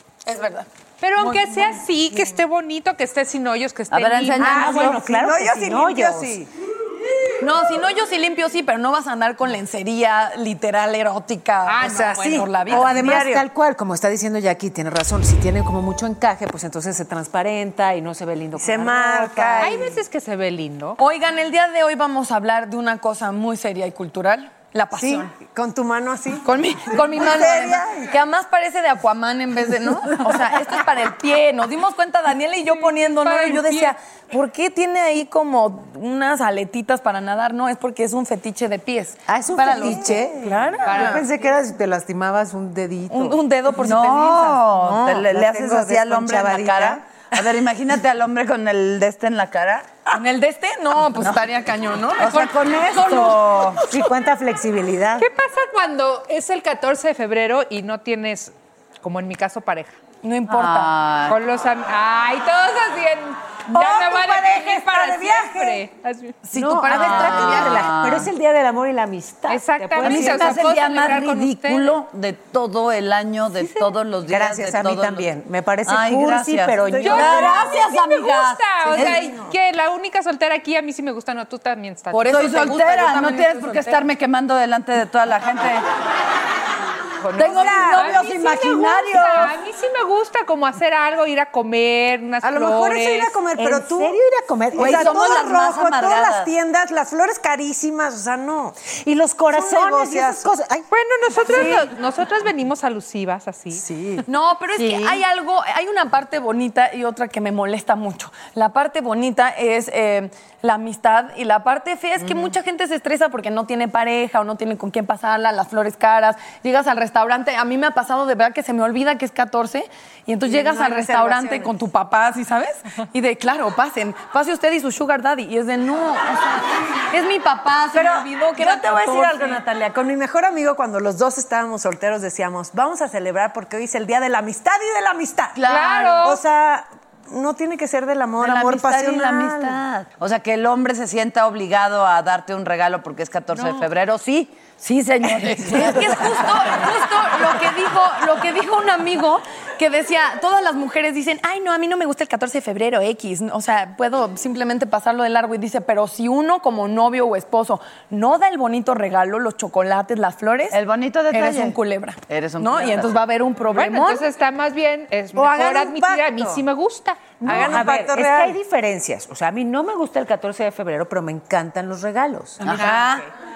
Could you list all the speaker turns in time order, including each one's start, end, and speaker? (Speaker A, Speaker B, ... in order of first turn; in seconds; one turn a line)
Speaker A: 0.2-0.7
Speaker B: 1.0-5.0
Speaker A: 1.2-1.8
Speaker C: 3.9-5.5
Speaker D: 4.4-6.3
Speaker E: 4.4-6.5
Speaker A: 7.4-13.2
Speaker B: 11.7-12.6
Speaker E: 11.9-13.4
Speaker D: 12.7-19.7
Speaker E: 18.6-19.9
Speaker B: 19.6-21.0
Speaker A: 21.0-25.3
Speaker E: 24.9-27.9
Speaker A: 26.4-40.3
Speaker C: 27.2-27.8
Speaker B: 33.1-34.0
Speaker D: 39.3-43.4
Speaker E: 40.1-40.5
Speaker B: 40.8-41.2
Speaker A: 40.8-41.2
Speaker A: 43.1-45.2
Speaker C: 43.8-49.9
Speaker D: 45.3-47.0
Speaker A: 50.1-53.6
Speaker C: 52.1-53.9
Speaker D: 53.9-55.3
Speaker B: 55.2-60.0
Speaker A: 60.2-60.9
Speaker C: 60.5-61.3
Speaker B: 61.2-67.6
Speaker E: 63.8-65.8
Speaker A: 66.5-67.8
Speaker D: 66.5-70.5
Speaker C: 66.9-68.3
Speaker B: 69.5-72.0
Speaker C: 70.0-75.2
Speaker B: 73.6-73.9
Speaker D: 74.3-77.7
Speaker C: 75.8-79.3
Speaker B: 77.0-82.8
Speaker E: 78.9-79.5
Speaker A: 82.1-84.0
Speaker C: 82.2-85.8
Speaker B: 87.2-93.4
Speaker C: 87.3-89.5
Speaker E: 92.4-94.2
Speaker D: 93.5-95.4
Speaker E: 94.7-98.9
Speaker C: 94.7-96.5
Speaker D: 99.0-100.9
Speaker E: 99.5-100.5
Speaker B: 100.9-103.8
Speaker A: 101.5-101.8
Speaker A: 104.2-129.6
Speaker C: 104.8-105.2
Speaker E: 120.4-121.7
Speaker E: 127.9-139.8
Speaker C: 135.6-136.2
Speaker B: 135.6-136.4
Speaker C: 138.4-146.9
Speaker B: 143.6-143.8
Speaker A: 145.6-160.8
Speaker C: 160.7-161.8
Speaker A: 161.3-164.2
Speaker C: 162.3-163.2
Speaker B: 163.7-167.6
Speaker D: 165.4-166.4
Speaker E: 167.4-168.6
Speaker D: 167.4-172.7
Speaker C: 172.6-173.0
Speaker A: 172.7-173.2
Speaker B: 172.7-173.1